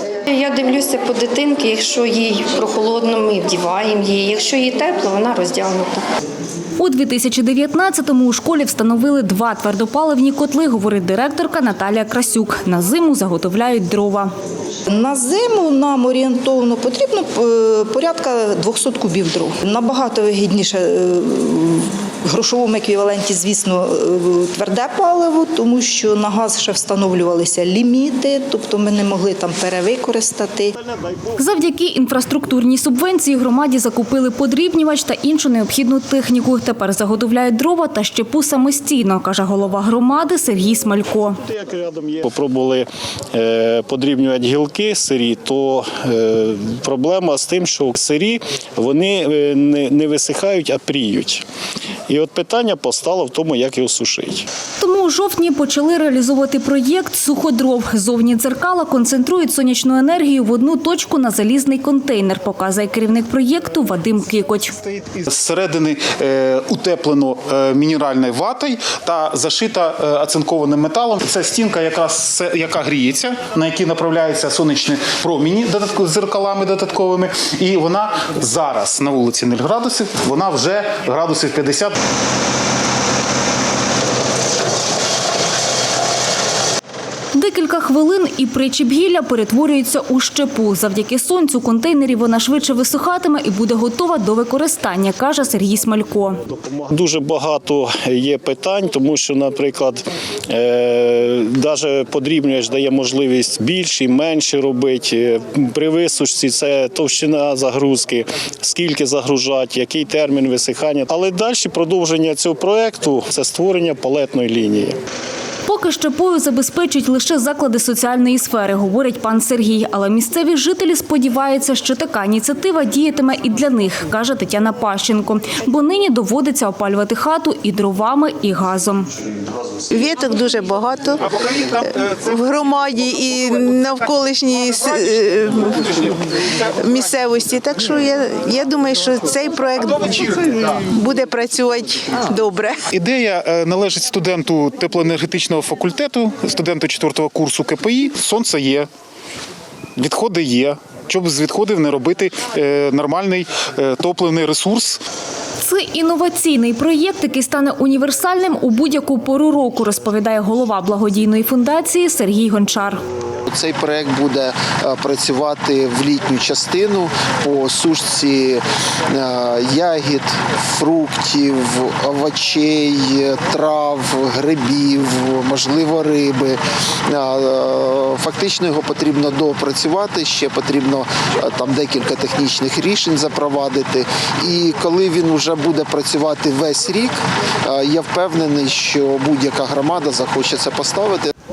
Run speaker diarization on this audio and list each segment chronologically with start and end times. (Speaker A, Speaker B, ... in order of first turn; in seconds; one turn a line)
Speaker A: 0.2-6.0
Speaker B: 6.8-14.3
Speaker C: 14.9-30.7
Speaker D: 30.9-31.2
Speaker B: 31.4-41.4
Speaker D: 41.4-51.4
Speaker D: 52.1-54.5
Speaker B: 54.8-64.7
Speaker E: 64.8-81.9
Speaker B: 87.3-96.4
Speaker D: 96.6-115.0
Speaker B: 115.7-129.1
Speaker F: 129.9-136.2
Speaker F: 136.8-142.8
Speaker E: 142.9-148.9
Speaker E: 149.9-155.0
Speaker B: 155.6-163.0
Speaker G: 163.5-191.3